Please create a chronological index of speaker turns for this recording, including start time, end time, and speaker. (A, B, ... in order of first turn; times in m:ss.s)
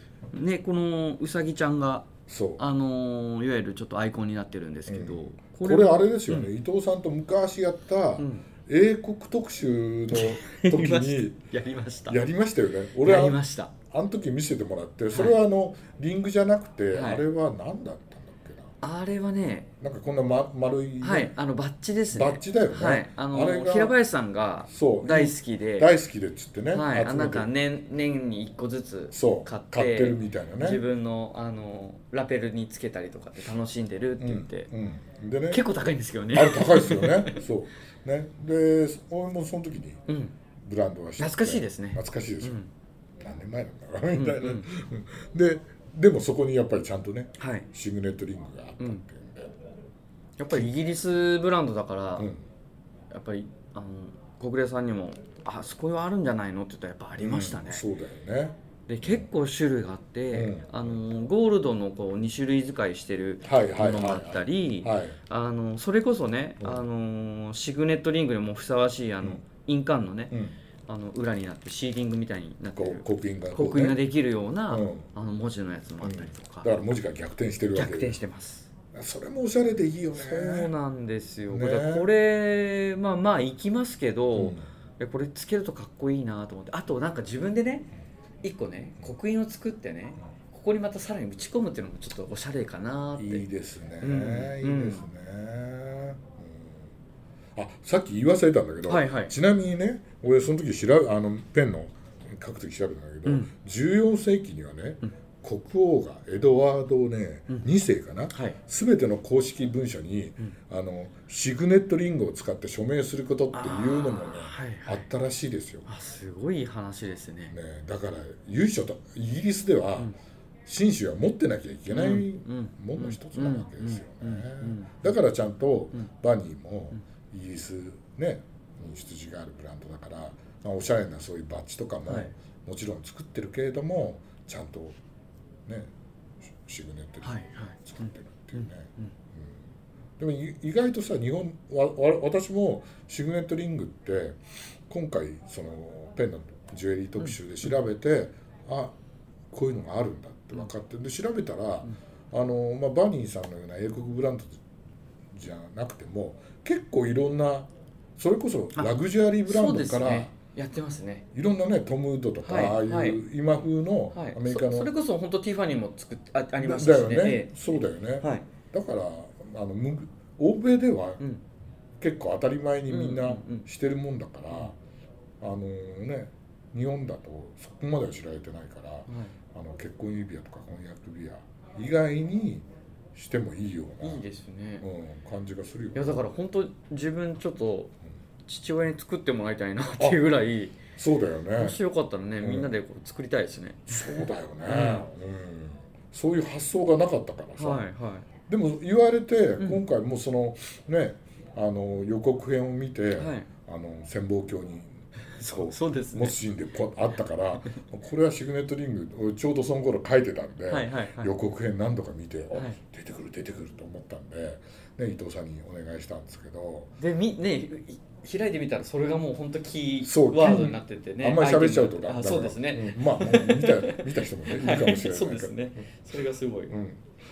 0:00.3-0:06.5 A
0:02.3-0:02.6 B
0:04.9-0:11.4 B
0:08.2-0:08.5 A
0:10.1-0:12.2 A
0:12.1-0:18.8 B
0:13.0-0:13.7 A
0:15.1-0:15.4 A
0:16.9-0:17.2 A
0:18.8-0:19.7 A
0:19.8-0:21.3 B
0:21.0-0:25.9 A
0:22.1-0:24.0 B
0:24.7-0:27.5 B
0:26.7-0:34.7 A
0:29.1-0:30.8 B
0:34.2-0:35.6 B
0:35.5-0:37.4 A
0:36.3-0:40.0 B
0:40.1-0:40.4 A
0:40.6-0:42.6 B
0:41.2-0:42.7 A
0:43.2-0:49.6 B
0:44.1-0:44.7 A
0:47.4-0:47.7 A
0:50.4-0:52.3 A
0:53.1-0:57.8 A
0:57.2-0:59.3 B
0:58.9-1:10.3 A
1:00.3-1:01.0 B
1:03.4-1:05.2 B
1:10.3-1:10.6 B
1:10.9-1:16.7 A
1:12.8-1:14.0 B
1:14.7-1:15.1 B
1:16.0-1:18.2 B
1:17.7-1:18.7 A
1:18.9-1:20.7 B
1:20.1-1:27.9 A
1:21.5-1:22.1 B
1:24.4-1:24.7 B
1:28.4-1:33.5 A
1:33.2-1:36.9 B
1:34.0-1:35.0 A
1:37.6-1:55.9 B
1:38.8-1:39.3 A
1:43.2-1:43.5 A
1:48.3-1:48.6 A
1:53.5-1:55.1 A
1:55.9-1:57.5 A
1:57.5-2:00.1 B
2:00.6-2:15.0 B
2:01.9-2:05.1 A
2:12.1-2:12.3 A
2:15.7-2:15.9 B
2:16.5-2:19.6 B
2:17.2-2:19.1 A
2:20.2-2:28.9 B
2:27.2-2:27.7 A
2:29.5-2:34.6 B
2:35.3-2:40.4 B
2:38.8-2:41.2 A
2:41.3-2:44.9 B
2:42.4-2:43.2 A
2:44.1-2:48.5 A
2:46.6-2:51.2 B
2:52.0-2:54.8 B
2:52.9-2:53.7 A
2:55.4-3:04.2 B
2:59.1-2:59.3 A
3:04.0-3:04.8 A
3:04.8-3:06.3 B
3:06.0-3:07.9 A
3:08.5-3:10.8 A
3:11.0-3:11.8 B
3:11.6-3:15.1 A
3:12.4-3:12.7 B
3:13.9-3:17.9 B
3:17.6-3:18.3 A
3:18.5-3:36.9 B
3:23.2-3:23.5 A
3:25.2-3:26.4 A
3:30.7-3:31.3 A
3:37.0-3:46.7 A
3:40.0-3:45.6 B
3:46.7-3:47.0 B